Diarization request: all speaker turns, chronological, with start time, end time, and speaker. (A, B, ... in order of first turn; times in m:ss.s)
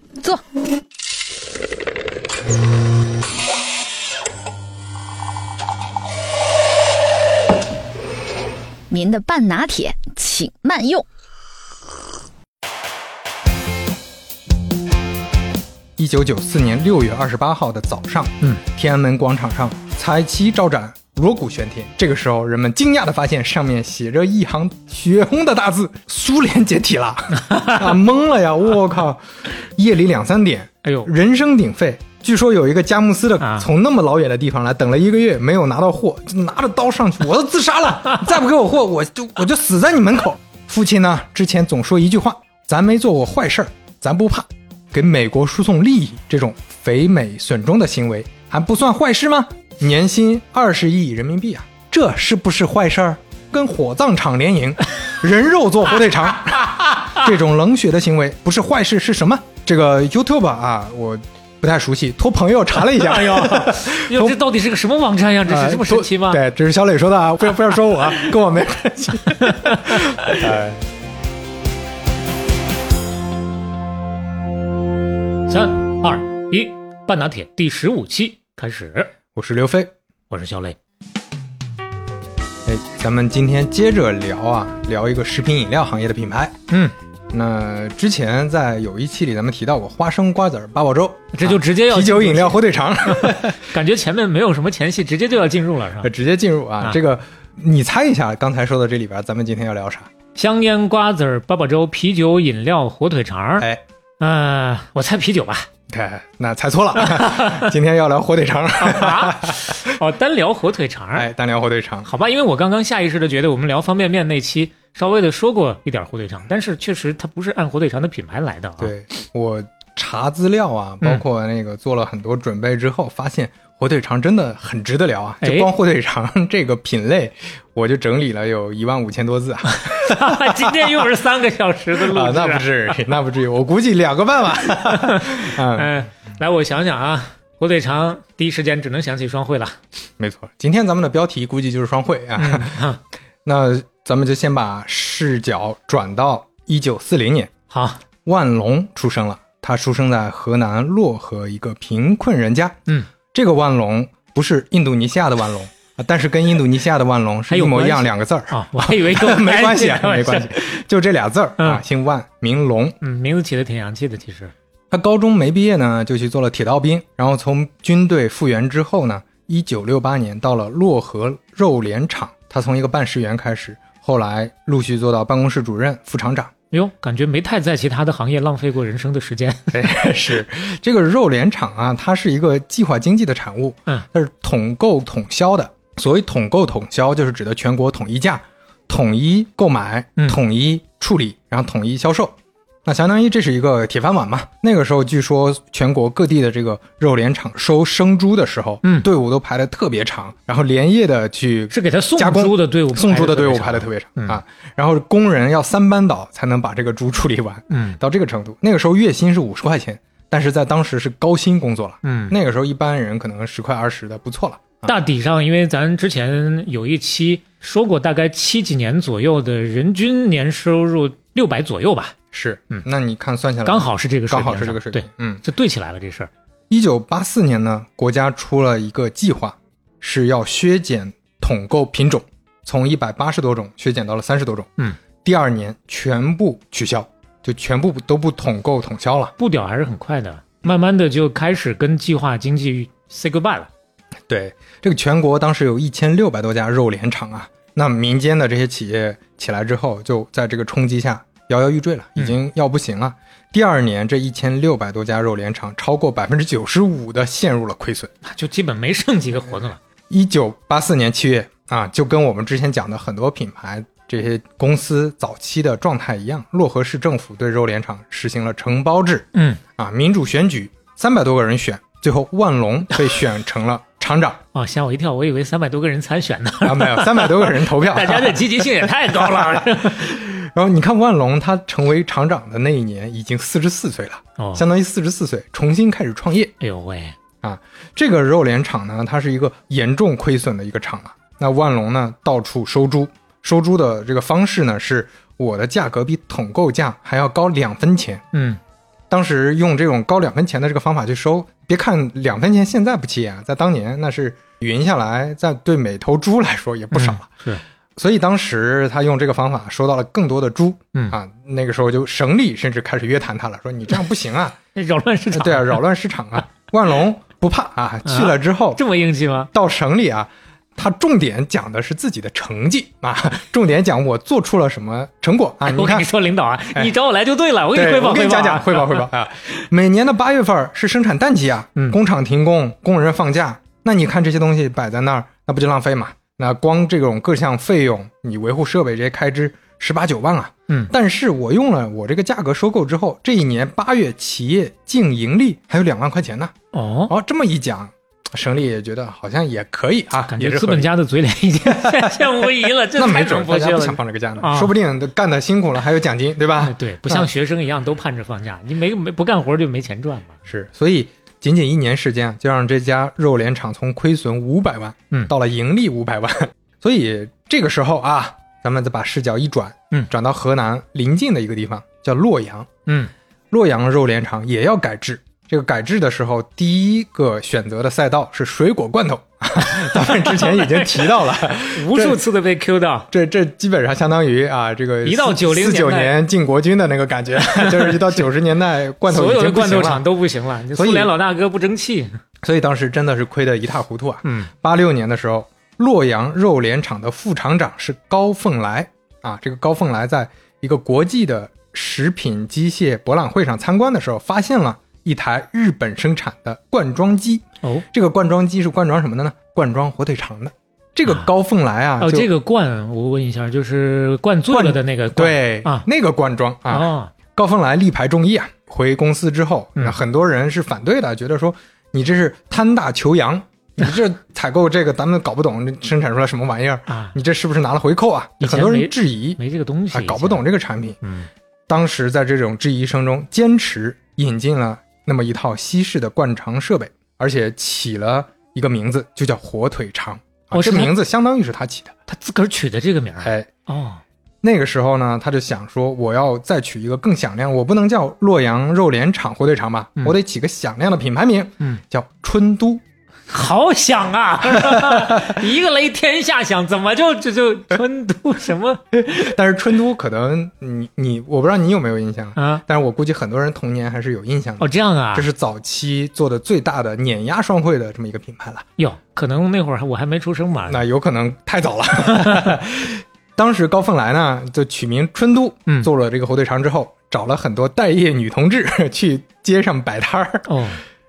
0:08.9-0:11.0 A
0:16.0-1:04.4 B
0:27.5-0:27.8 C
0:30.8-0:31.1 C
0:33.4-0:33.7 C
1:02.9-1:06.4 C
1:05.4-1:10.8 B
1:09.4-1:10.4 C
1:15.5-1:19.1 C
1:19.3-1:19.9 B
1:20.3-1:20.8 C
1:22.6-1:33.6 B
1:31.3-1:32.6 C
1:33.2-1:36.1 C
1:36.0-1:40.1 B
1:40.3-1:43.7 C
1:44.2-1:45.7 C
1:45.9-1:49.9 B
1:47.1-1:47.7 C
1:48.8-1:51.3 C
1:51.1-1:52.1 B
1:52.0-1:58.9 C
1:58.8-2:11.1 B
2:05.4-2:05.7 C
2:09.7-2:12.7 C
2:12.0-2:15.9 B
2:14.9-2:19.8 C
2:20.2-2:22.8 B
2:22.4-2:23.0 C
2:23.4-2:27.5 B
2:27.7-2:28.0 C
2:28.2-2:43.0 B
2:37.5-2:40.6 C
2:43.0-2:44.5 C
2:44.9-2:56.5 B
2:56.7-2:59.9 C
2:59.7-3:35.0 B
3:21.7-3:24.4 C
3:27.7-3:28.0 C
3:32.0-3:32.3 C
3:34.8-3:42.2 C
3:42.3-3:45.4 B
3:43.6-3:46.3 C
3:46.7-3:59.3 B
3:59.4-4:03.7 C
4:04.3-4:18.1 B
4:18.2-4:19.8 C
4:20.1-4:34.4 B
4:29.3-4:29.6 C
4:34.5-4:40.2 C
4:36.6-4:46.5 B
4:44.4-4:44.6 C
4:46.6-4:47.2 C
4:47.4-4:58.2 B
4:58.3-4:58.6 C
4:59.1-5:07.3 B
5:06.9-5:07.6 C
5:08.0-5:14.6 B
5:14.7-5:15.8 C
5:15.3-5:18.8 B
5:18.0-5:19.5 C
5:19.5-5:26.1 B
5:25.6-5:29.1 C
5:27.7-5:46.5 B
5:46.7-5:47.1 C
5:47.1-5:50.9 B
5:50.2-5:54.7 C
5:51.6-5:57.3 B
5:56.6-6:00.4 C
6:00.5-6:12.7 B
6:13.5-6:22.2 B
6:19.7-6:23.1 C
6:23.1-6:30.1 B
6:25.0-6:26.2 C
6:27.5-6:28.2 C
6:29.0-6:32.2 C
6:30.7-6:31.1 B
6:32.4-6:52.3 B
6:34.2-6:34.5 C
6:52.0-6:55.9 C
6:54.5-7:09.4 B
6:56.7-6:57.1 C
7:06.9-7:07.1 C
7:08.4-7:10.4 C
7:09.9-7:11.0 B
7:11.0-7:11.3 C
7:11.7-7:21.9 B
7:20.5-7:20.9 C
7:22.1-7:24.0 C
7:23.2-7:23.5 B
7:24.4-7:32.8 B
7:33.3-7:39.3 C
7:34.6-7:35.3 B
7:38.9-7:48.7 B
7:42.4-7:42.6 C
7:44.6-7:45.3 C
7:48.8-7:50.8 C
7:50.7-8:00.5 B
8:00.5-8:00.8 C